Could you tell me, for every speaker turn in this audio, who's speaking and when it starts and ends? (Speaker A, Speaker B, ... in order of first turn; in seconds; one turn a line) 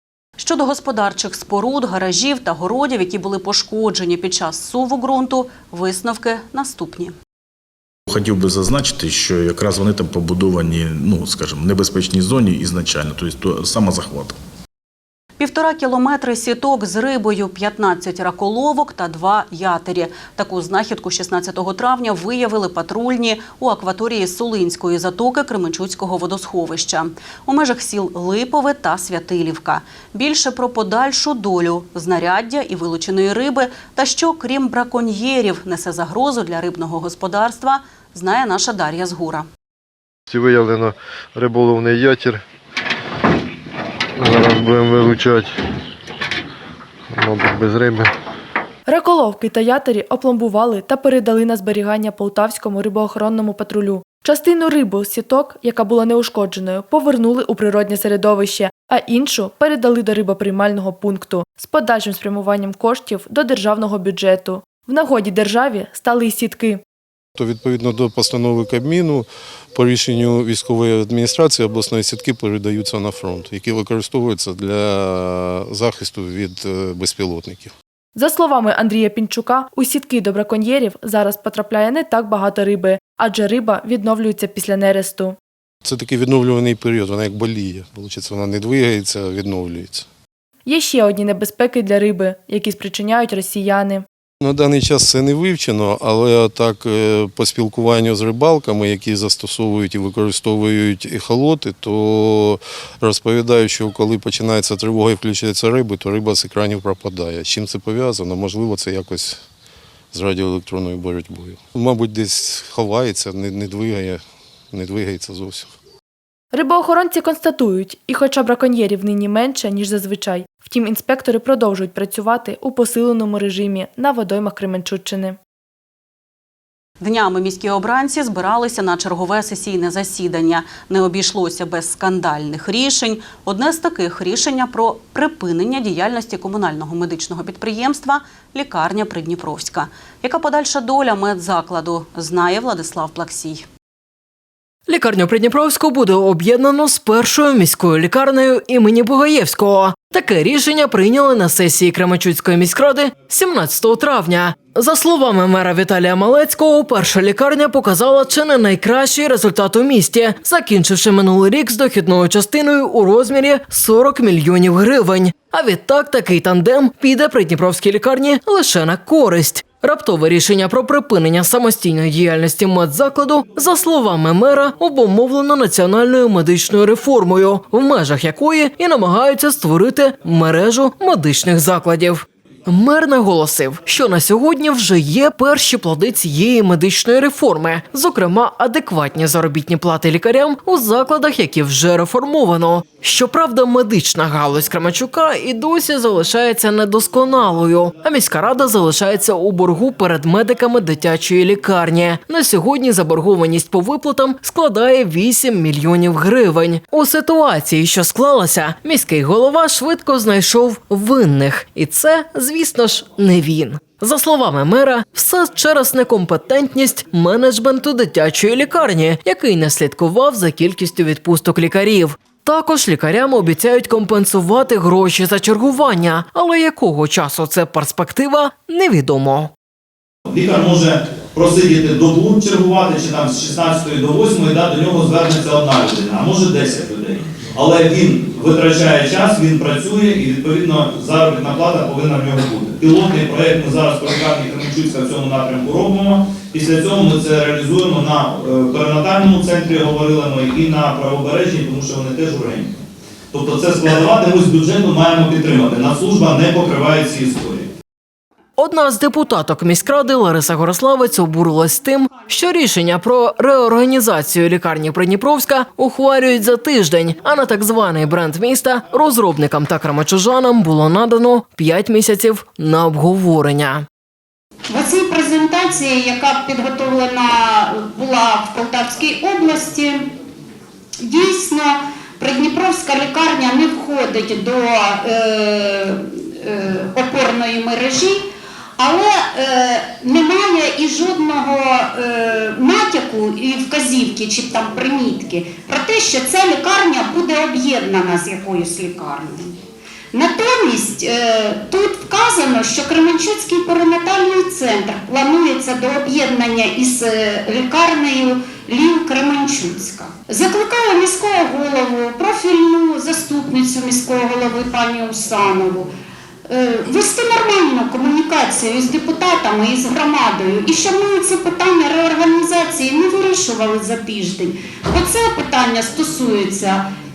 Speaker A: 0.4-7.1
Speaker B: 8.1-14.4
Speaker A: 15.4-39.5
Speaker C: 40.3-42.4
Speaker C: 44.2-45.5
Speaker C: 47.1-48.1
Speaker D: 48.9-66.8
Speaker E: 67.4-77.7
Speaker D: 78.2-85.4
Speaker E: 85.8-90.1
Speaker D: 90.7-94.0
Speaker E: 94.4-109.4
Speaker E: 110.1-115.7
Speaker D: 116.5-125.4
Speaker A: 127.0-143.7
Speaker F: 144.9-229.5
Speaker G: 230.2-257.7
Speaker F: 258.6-273.8
Speaker H: 274.7-280.1
Speaker H: 281.0-288.2
Speaker H: 288.8-299.5
Speaker H: 300.1-315.9
Speaker H: 316.5-326.8